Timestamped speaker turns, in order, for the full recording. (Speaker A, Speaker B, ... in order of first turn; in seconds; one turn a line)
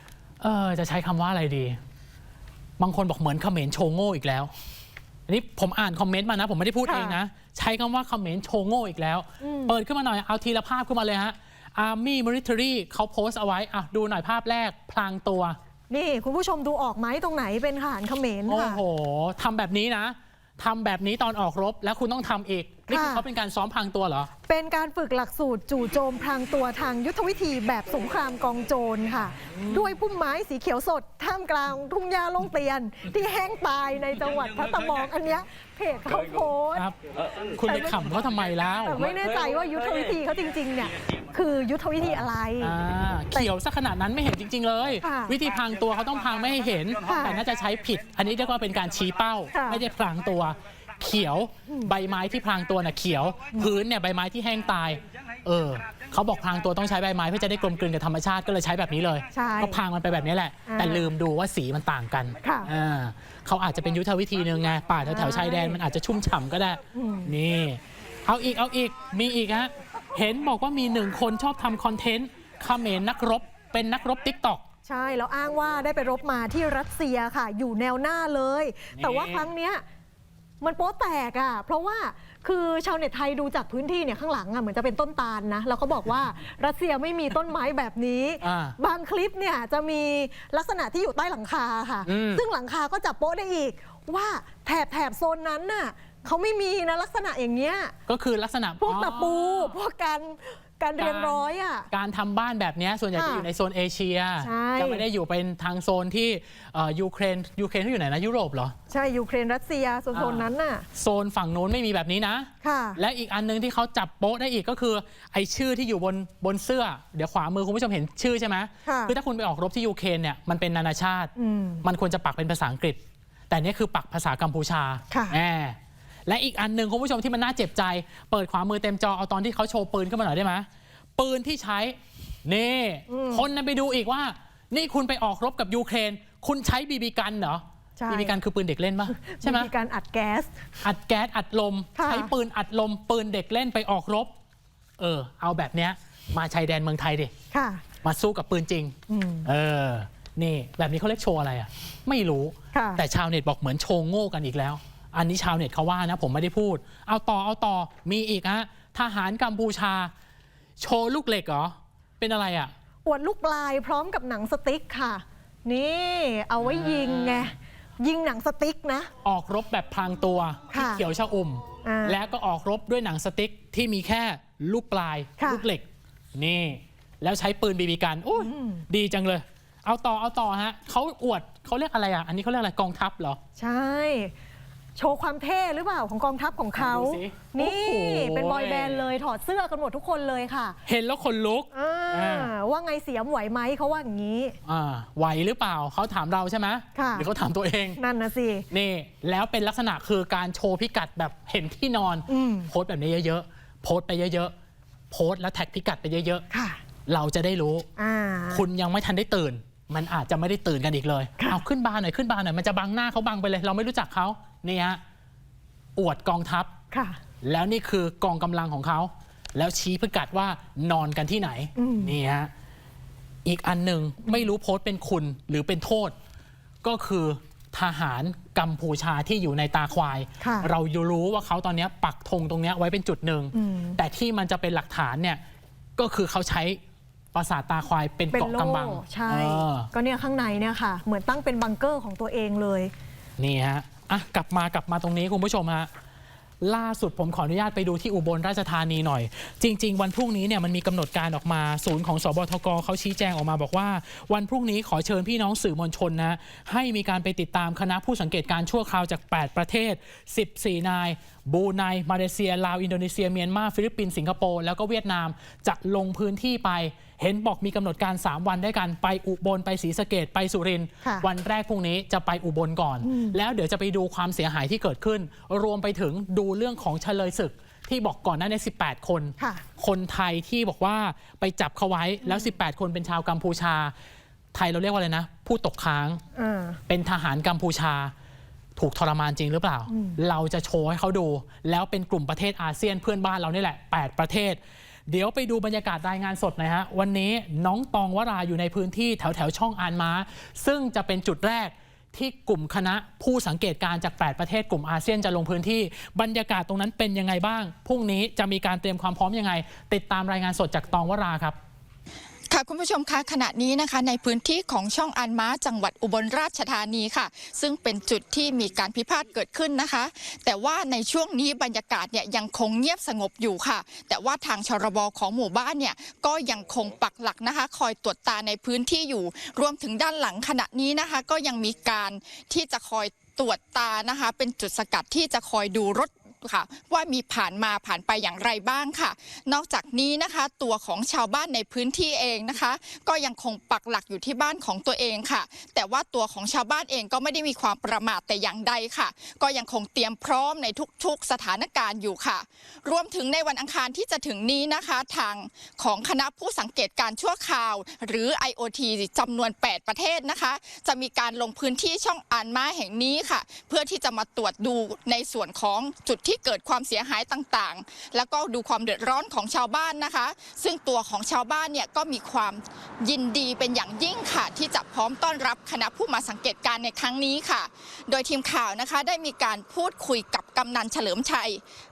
Speaker A: 0.4-1.8
Speaker A: 2.8-4.5
Speaker A: 5.3-15.6
Speaker B: 6.8-7.2
Speaker B: 9.4-9.7
Speaker B: 15.9-18.8
Speaker A: 18.5-24.3
Speaker B: 22.9-23.2
Speaker B: 24.5-36.9
Speaker A: 29.5-29.8
Speaker A: 37.5-39.1
Speaker B: 37.6-38.2
Speaker B: 38.8-42.8
Speaker A: 42.6-74.6
Speaker B: 45.0-45.4
Speaker B: 47.0-47.4
Speaker B: 49.5-49.8
Speaker B: 59.3-59.8
Speaker B: 60.7-61.1
Speaker B: 62.4-62.7
Speaker B: 65.0-65.8
Speaker B: 66.9-67.3
Speaker B: 74.8-79.8
Speaker A: 78.9-79.5
Speaker B: 80.6-97.9
Speaker A: 88.4-88.8
Speaker A: 92.0-92.4
Speaker A: 98.1-99.7
Speaker B: 98.8-101.9
Speaker A: 101.0-108.7
Speaker B: 103.1-103.5
Speaker B: 104.4-105.0
Speaker B: 108.9-110.8
Speaker A: 110.1-121.3
Speaker B: 112.6-113.0
Speaker B: 118.8-119.1
Speaker B: 121.4-121.8
Speaker A: 121.8-139.7
Speaker B: 125.1-125.4
Speaker B: 133.1-133.4
Speaker B: 138.0-138.3
Speaker B: 139.1-140.5
Speaker A: 140.8-144.3
Speaker B: 142.0-142.3
Speaker A: 145.0-147.3
Speaker B: 147.5-147.8
Speaker A: 148.0-160.1
Speaker B: 149.1-149.5
Speaker B: 152.7-153.0
Speaker A: 160.8-162.7
Speaker B: 163.0-169.1
Speaker A: 166.6-167.5
Speaker A: 169.2-183.4
Speaker B: 170.7-171.0
Speaker B: 171.8-172.2
Speaker B: 175.4-175.7
Speaker B: 178.4-178.8
Speaker B: 183.6-184.3
Speaker B: 185.0-190.8
Speaker A: 186.7-189.1
Speaker A: 190.8-192.5
Speaker B: 191.7-194.6
Speaker A: 194.6-198.0
Speaker B: 196.9-197.3
Speaker B: 198.0-198.7
Speaker A: 198.7-204.5
Speaker B: 202.3-202.7
Speaker A: 205.1-206.4
Speaker B: 206.5-206.8
Speaker A: 207.1-207.9
Speaker B: 208.0-208.6
Speaker A: 208.5-215.0
Speaker A: 215.9-216.7
Speaker B: 216.9-217.2
Speaker A: 217.4-222.5
Speaker B: 221.8-222.2
Speaker A: 223.4-226.1
Speaker A: 226.8-235.4
Speaker B: 230.4-230.7
Speaker B: 233.5-234.0
Speaker A: 236.0-236.8
Speaker A: 237.3-239.9
Speaker B: 238.3-242.9
Speaker A: 243.4-245.9
Speaker A: 246.6-283.9
Speaker B: 273.0-273.4
Speaker B: 279.4-279.6
Speaker A: 284.5-286.2
Speaker B: 286.4-286.8
Speaker A: 286.9-288.1
Speaker A: 288.8-311.6
Speaker B: 289.9-290.2
Speaker C: 312.5-381.6